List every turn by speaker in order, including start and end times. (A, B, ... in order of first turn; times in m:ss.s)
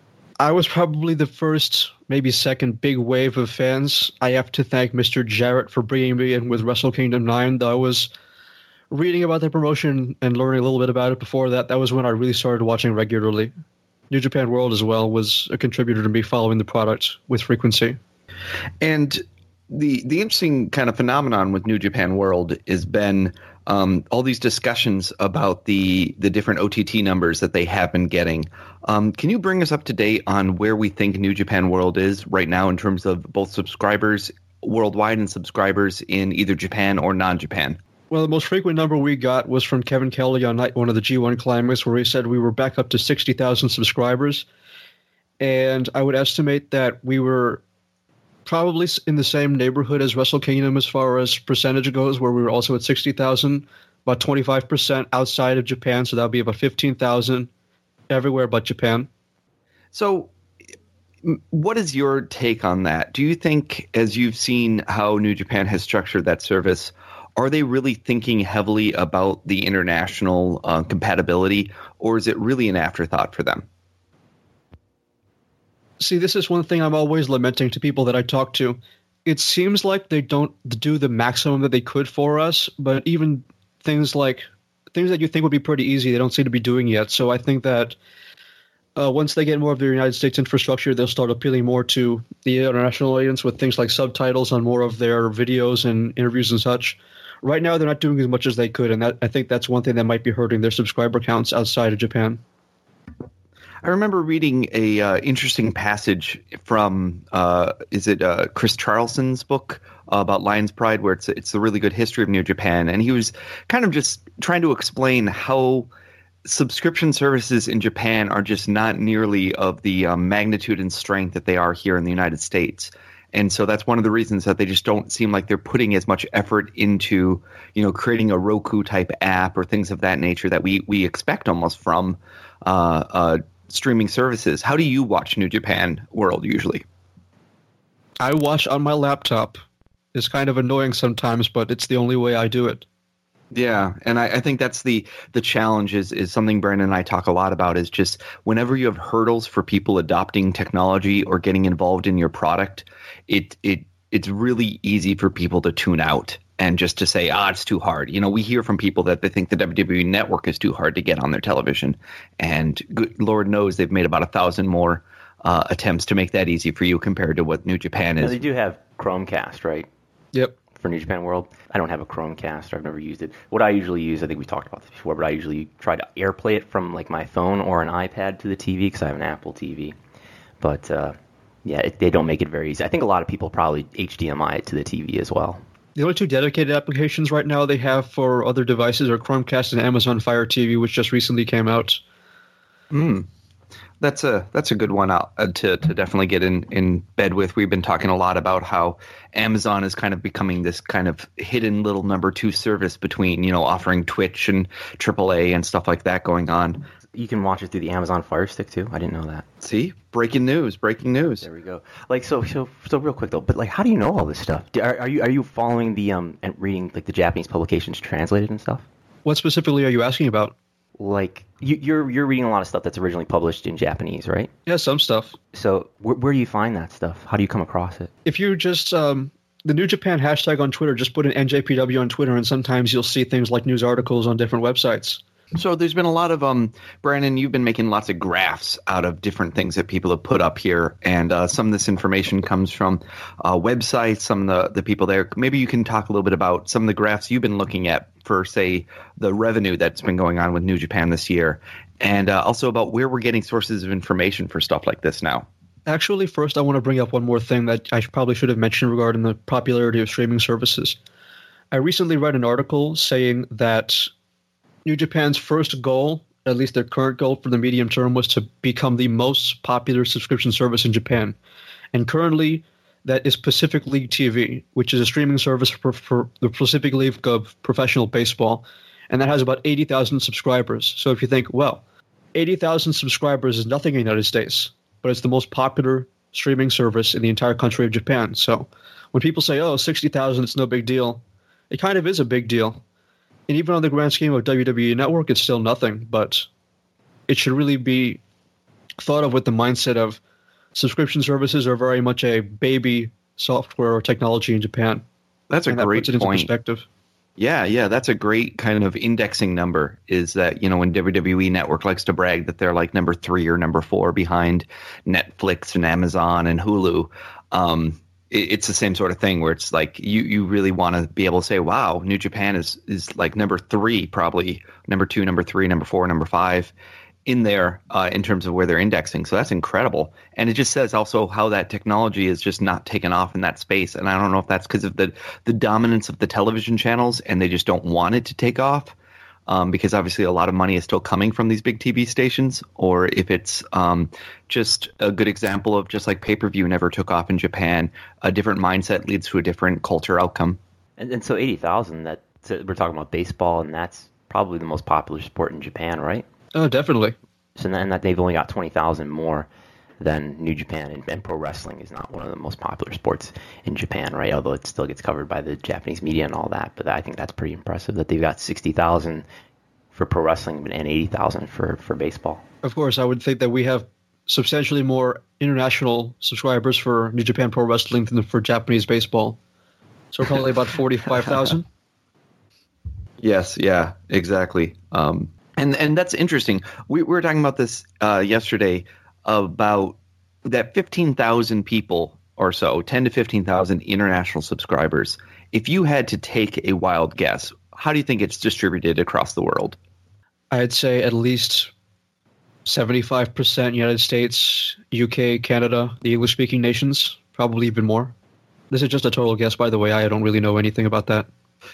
0:00.4-0:08.1 A
0:08.9-0:13.5 A
0:14.1-0:18.0 A
0:18.8-0:37.8 B
0:38.1-0:44.4 A
0:45.4-0:47.6 A
0:48.4-0:57.5 A
0:58.1-0:59.1 A
0:59.9-1:00.3 B
1:01.2-1:13.6 B
1:16.0-1:28.0 A
1:29.0-1:42.4 A
1:43.8-1:55.9 B
1:56.4-2:16.8 B
2:18.2-2:19.6 A
2:20.1-2:22.8 A
2:23.5-2:48.4 B
2:48.2-2:49.9 C
2:50.8-3:00.0 C
3:00.6-3:05.6 C
3:06.0-3:12.0 A
3:12.9-3:13.3 B
3:14.0-3:26.8 B
3:27.1-3:29.4 C
3:29.6-3:31.4 B
3:31.4-3:38.8 C
3:39.2-3:40.5 A
3:41.0-3:44.5 C
3:44.7-3:45.4 A
3:45.5-3:48.1 C
3:48.2-3:55.2 A
3:55.5-4:15.5 B
4:15.8-4:21.0 A
4:21.7-4:24.1 A
4:24.8-4:31.4 A
4:31.9-4:41.8 A
4:42.3-4:52.8 A
4:53.5-4:56.5 A
4:57.3-4:58.2 A
4:59.0-5:00.2 A
5:00.7-5:05.0 A
5:05.5-5:06.5 B
5:05.7-5:06.8 A
5:07.4-5:26.7 B
5:27.2-5:38.9 B
5:39.5-5:50.6 B
5:51.0-5:56.2 C
5:56.5-5:57.1 A
5:57.6-5:59.5 C
6:00.0-6:09.2 C
6:09.9-6:12.4 C
6:12.6-6:19.4 A
6:20.1-6:21.6 A
6:23.2-6:39.8 B
6:40.5-6:41.7 A
6:42.6-6:48.1 A
6:48.7-6:51.3 A